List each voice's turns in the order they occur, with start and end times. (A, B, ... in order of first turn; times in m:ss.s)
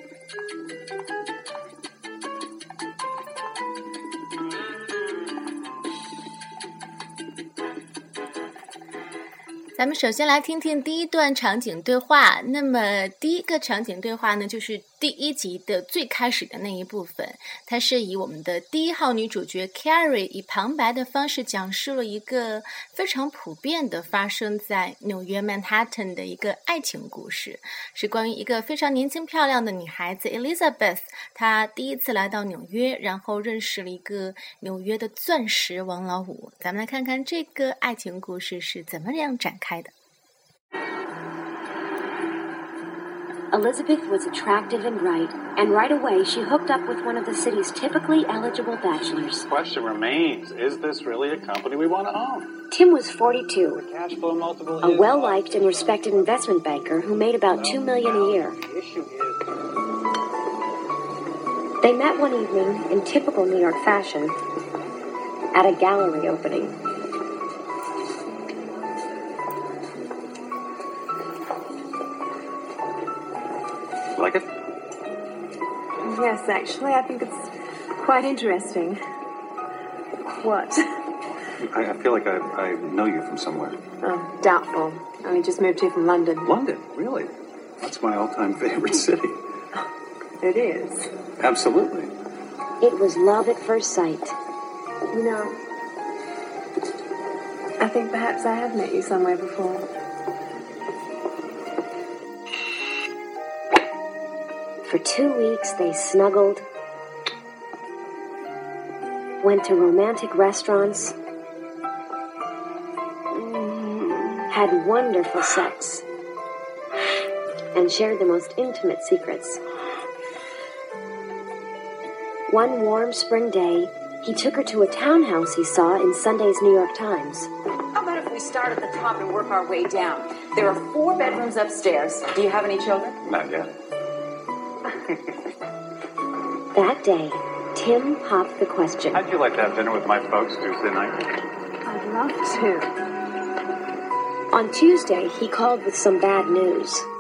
0:09.8-0:39.9 A
0:43.5-0:49.5 B
0:49.5-0:52.6 C
0:52.7-0:53.8 B
0:53.8-0:56.3 C
0:54.8-0:58.6 B
0:57.5-0:59.4 C
1:01.8-1:04.4 B
1:05.5-1:06.8 B
1:14.2-1:14.5 C
1:16.0-1:19.0 D
1:20.4-1:20.9 D
1:21.6-1:23.8 C
1:24.0-1:26.5 D
1:26.4-1:29.4 C
1:30.4-1:31.1 D
1:31.4-1:32.1 C
1:32.8-1:34.4 B
1:35.1-1:35.6 D
1:37.8-1:39.9 D
1:44.8-1:46.6 B
1:49.4-1:51.2 B
1:53.7-1:53.9 D
1:54.5-1:56.0 B
1:57.7-1:59.6 B
2:02.5-2:07.5 B
2:07.9-2:13.2 E
2:13.2-2:13.7 C
2:16.8-2:19.2 B
2:19.1-2:21.2 C
2:21.8-2:23.0 D
2:24.5-2:27.1 B